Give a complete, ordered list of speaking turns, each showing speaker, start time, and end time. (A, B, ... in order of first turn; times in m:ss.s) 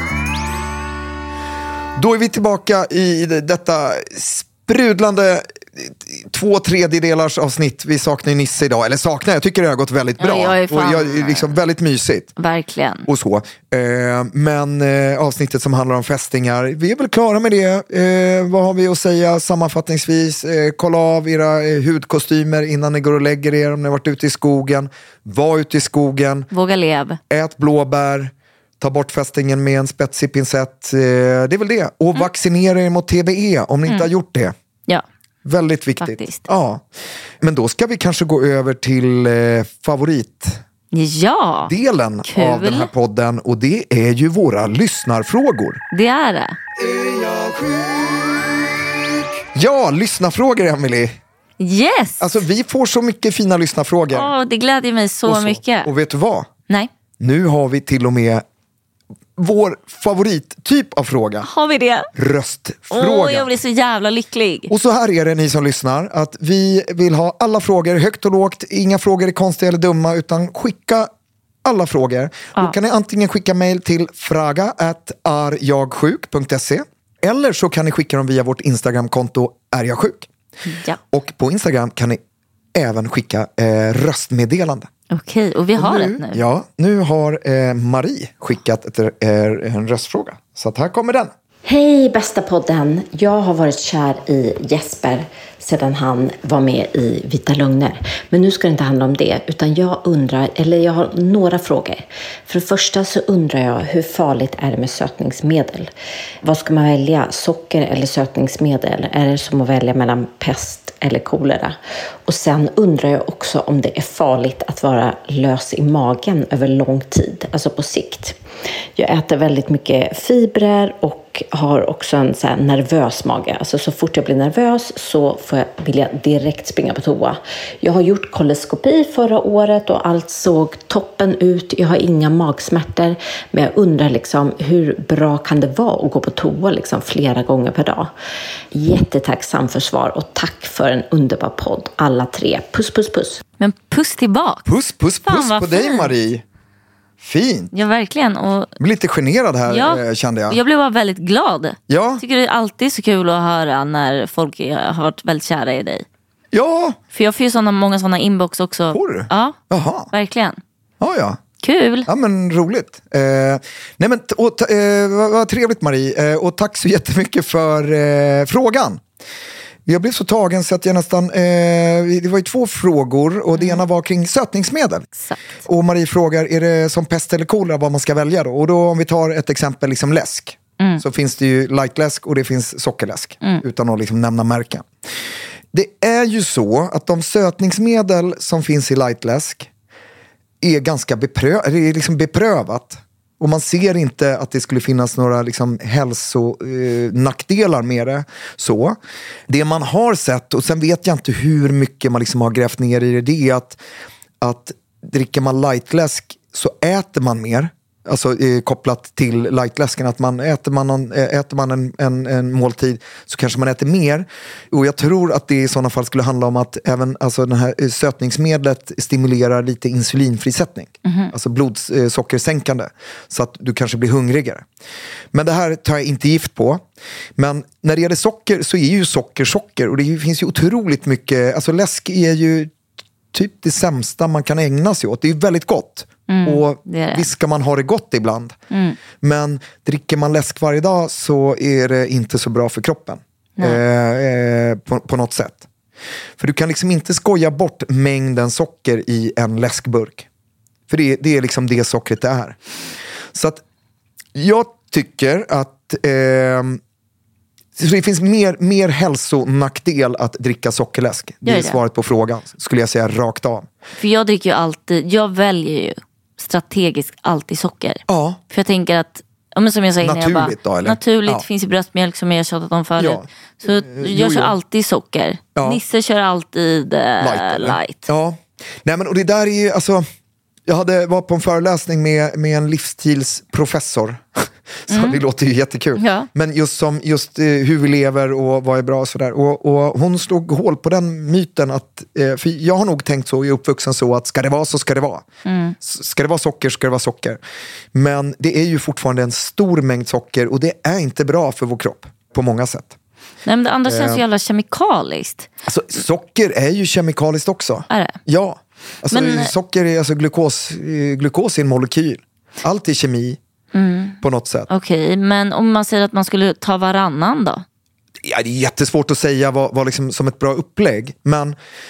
0:01.9-0:12.3 A
0:10.2-0:11.6 B
0:12.4-0:13.1 B
0:13.0-0:26.5 A
0:26.5-0:27.2 B
0:27.3-0:34.5 A
0:35.4-0:36.8 A
0:36.0-0:36.4 B
0:37.4-0:40.6 A
0:40.9-0:41.7 B
0:41.7-0:45.8 A
0:42.2-0:42.9 B
0:45.9-0:46.6 B
0:46.8-0:48.4 A
0:49.5-0:51.2 A
0:51.6-0:52.3 B
0:52.2-0:54.3 A
0:54.1-0:55.9 B
0:55.2-0:56.5 A
0:57.2-0:58.4 A
0:59.4-1:01.5 A
1:01.4-1:02.1 B
1:02.1-1:03.5 A
1:02.9-1:04.7 B
1:04.7-1:11.1 A
1:11.6-1:20.3 A
1:20.7-1:21.0 B
1:21.1-1:22.2 A
1:22.7-1:24.9 A
1:25.1-1:26.4 B
1:25.8-1:31.3 A
1:31.6-1:45.9 C
1:46.4-1:58.4 C
1:58.9-2:18.1 C
2:18.7-2:23.4 C
2:23.6-2:24.6 B
2:24.6-2:26.4 A
2:25.2-2:26.1 B
2:27.2-2:27.7 A
2:27.7-2:28.7 B
2:28.8-2:30.6 A
2:29.7-2:36.0 B
2:31.9-2:32.2 A
2:36.5-2:37.0 A
2:37.1-2:39.6 B
2:38.9-2:40.1 A
2:40.1-2:40.6 B
2:41.0-2:41.4 A
2:41.6-2:42.1 B
2:42.0-2:49.0 A
2:49.8-2:55.1 A
2:53.5-2:53.8 B
2:55.6-3:04.9 A
3:05.7-3:09.7 A
3:10.6-3:23.8 A
3:24.4-3:44.6 A
3:41.0-3:41.3 B
3:45.3-3:46.8 A
3:47.4-3:52.7 A
3:53.3-3:58.6 A
3:56.3-3:57.3 B
3:58.7-3:59.0 B
3:59.2-4:05.7 A
4:06.4-4:10.3 A
4:10.9-4:12.6 A
4:13.3-4:13.6 A
4:14.3-4:16.8 A
4:17.8-4:23.7 A
4:21.4-4:21.8 B
4:24.0-4:38.1 B
4:28.1-4:28.4 A
4:30.0-4:31.4 A
4:33.0-4:34.5 A
4:35.5-4:35.8 A
4:37.2-4:40.0 A
4:40.7-4:55.2 A
4:44.9-4:45.2 B
4:46.0-4:46.3 B
4:55.4-4:55.8 B
4:55.8-4:57.4 A
4:57.9-5:03.0 A
5:03.4-5:05.5 B
5:03.8-5:04.2 A
5:05.7-5:13.4 A
5:07.9-5:08.2 B
5:09.1-5:09.5 B
5:13.7-5:17.6 B
5:14.2-5:14.7 A
5:18.2-5:21.6 A